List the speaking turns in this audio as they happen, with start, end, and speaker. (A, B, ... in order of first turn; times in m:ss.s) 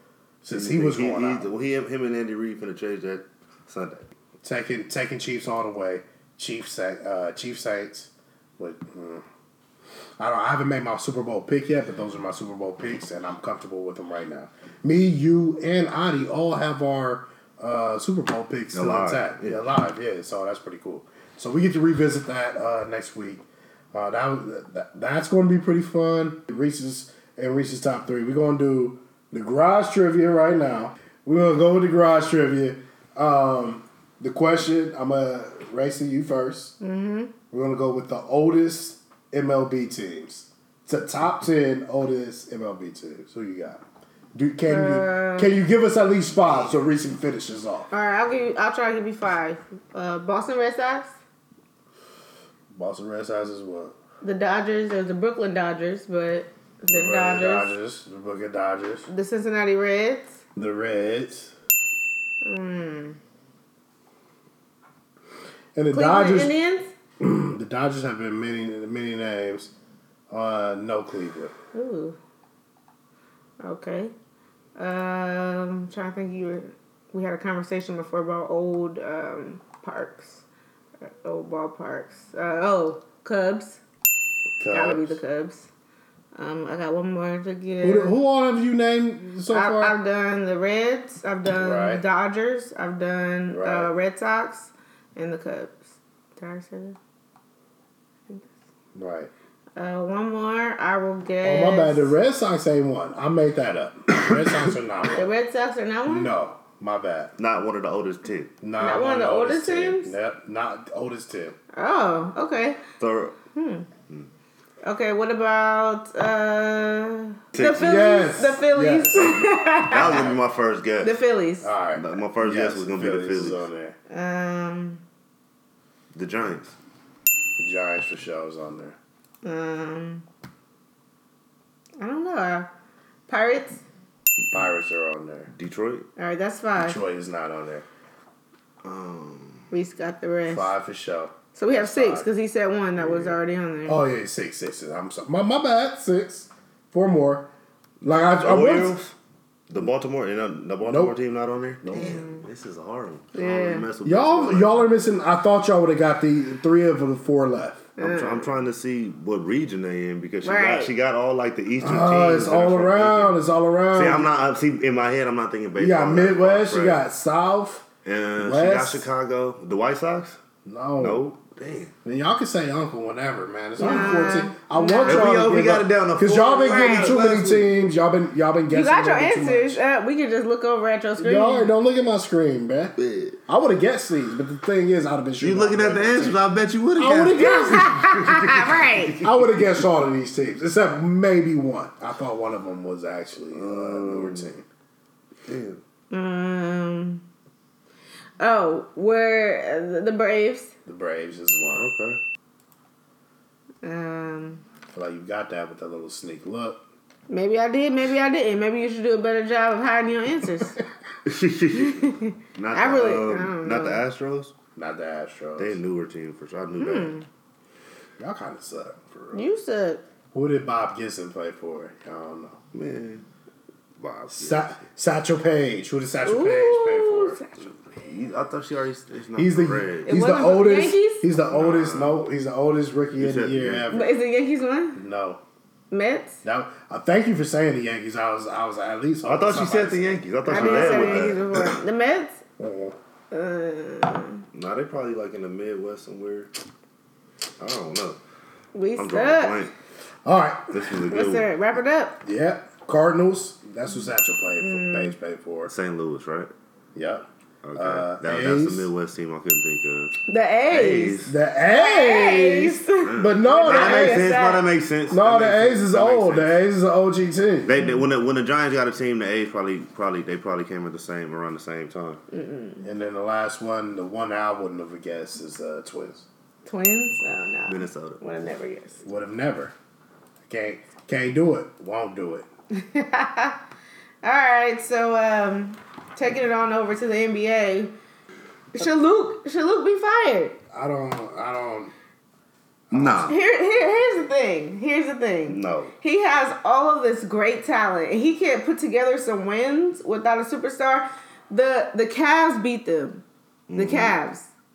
0:00.4-0:01.5 A
0:00.5-0:04.1 B
0:04.4-0:09.2 A
0:10.2-0:36.8 A
0:18.7-0:19.6 B
0:36.8-0:37.3 C
0:37.5-0:43.8 A
0:44.3-0:47.9 A
0:44.6-0:45.6 C
0:47.9-0:51.1 C
0:52.7-0:54.0 A
0:54.2-0:57.7 C
0:56.9-0:59.1 A
0:59.1-1:00.4 C
1:00.6-1:01.5 A
1:02.4-1:03.2 C
1:05.7-1:06.6 A
1:05.9-1:06.9 C
1:07.2-1:09.7 A
1:10.3-1:11.5 A
1:11.7-1:12.2 C
1:13.6-1:14.1 C
1:14.8-1:20.4 C
1:21.0-1:23.8 C
1:24.6-1:25.2 A
1:24.7-1:25.7 C
1:26.3-1:28.1 C
1:27.8-1:30.0 A
1:29.5-1:37.0 C
1:31.5-1:32.0 A
1:33.5-1:33.9 A
1:38.9-1:39.3 A
1:39.8-1:42.1 C
1:41.4-1:45.3 A
1:45.2-1:46.3 C
1:46.1-1:47.3 A
1:47.4-1:48.5 B
1:48.6-1:51.6 A
1:48.8-1:50.1 C
1:51.7-1:52.8 C
1:53.0-1:53.3 B
1:53.5-1:53.9 C
1:54.8-2:00.3 C
1:57.5-1:58.2 B
1:57.8-1:59.4 A
1:59.1-2:01.2 B
2:01.0-2:01.7 C
2:01.6-2:04.0 A
2:02.0-2:03.6 B
2:04.1-2:05.0 C
2:06.1-2:06.7 B
2:07.6-2:09.0 A
2:09.4-2:10.2 C
2:12.0-2:12.7 C
2:13.3-2:13.8 C
2:14.5-2:15.5 A
2:15.5-2:16.0 B
2:16.2-2:17.0 C
2:16.8-2:17.8 A
2:18.8-2:19.6 B
2:19.7-2:20.7 C
2:20.5-2:22.3 A
2:21.5-2:24.0 C
2:23.0-2:23.4 B
2:23.8-2:27.5 A
2:28.0-2:29.0 A
2:28.4-2:29.1 B
2:29.7-2:34.9 B
2:30.8-2:31.2 A
2:31.8-2:32.2 A
2:32.0-2:32.4 C
2:33.3-2:33.8 C
2:34.0-2:37.9 A
2:38.0-2:38.5 C
2:38.0-2:43.4 B
2:40.4-2:40.9 C
2:41.8-2:44.3 A
2:43.9-2:47.0 B
2:45.8-2:47.9 A
2:48.0-2:50.4 B
2:48.4-2:49.0 A
2:50.6-2:51.2 A
2:51.0-2:51.9 B
2:52.0-2:59.8 A
2:53.8-2:55.3 C
2:53.8-2:54.1 B
2:55.0-2:57.7 B
2:56.6-2:57.1 C
2:58.7-3:01.7 C
3:01.2-3:06.4 A
3:03.0-3:03.4 B
3:05.4-3:09.8 B
3:07.0-3:08.3 A
3:07.3-3:09.2 C
3:09.2-3:14.6 A
3:13.5-3:14.5 B
3:15.5-3:15.8 B
3:16.1-3:17.2 C
3:18.4-3:20.7 C
3:20.8-3:21.9 A
3:21.7-3:22.2 B
3:23.8-3:24.6 C
3:24.9-3:26.8 A
3:27.3-3:30.8 C
3:31.2-3:34.5 B
3:31.7-3:34.0 C
3:34.7-3:35.8 A
3:35.6-3:37.1 B
3:36.8-3:37.2 C
3:38.2-3:39.5 A
3:39.3-3:40.0 C
3:40.3-3:42.6 A
3:42.7-3:43.2 B
3:44.0-3:44.7 B
3:44.3-3:47.4 A
3:46.2-3:47.5 C
3:48.0-3:50.2 B
3:49.4-3:54.2 A
3:50.1-3:51.2 C
3:51.5-3:52.2 B
3:53.2-3:53.9 B
3:53.9-3:55.0 C
3:54.9-3:55.4 A
3:55.9-3:56.4 C
3:56.4-4:01.4 A
3:59.2-4:01.8 B
4:00.5-4:02.4 C
4:02.6-4:03.0 A
4:03.3-4:04.4 C
4:04.5-4:06.5 B
4:07.6-4:08.2 B
4:08.7-4:09.6 C
4:09.0-4:09.7 B
4:10.2-4:10.7 A
4:10.7-4:11.5 B
4:11.1-4:12.2 C
4:12.2-4:15.7 A
4:14.6-4:15.1 C
4:15.7-4:16.5 B
4:16.9-4:17.2 A
4:17.6-4:20.1 B
4:17.8-4:18.9 A
4:20.3-4:24.6 C
4:20.7-4:21.3 B
4:21.2-4:24.3 A
4:23.0-4:26.6 B
4:25.1-4:27.8 A
4:27.6-4:32.2 B
4:32.3-4:32.8 C
4:32.8-4:36.2 A
4:36.6-4:39.0 C
4:37.7-4:38.2 B
4:39.0-4:39.7 A
4:40.4-4:42.5 A
4:42.7-4:43.6 C
4:44.2-4:47.9 C
4:48.7-4:50.5 C
4:50.7-4:51.9 A
4:52.9-4:53.3 A
4:52.9-4:53.4 B
4:53.3-5:03.2 C
4:55.5-4:55.9 B
5:03.7-5:04.2 B
5:03.7-5:04.5 C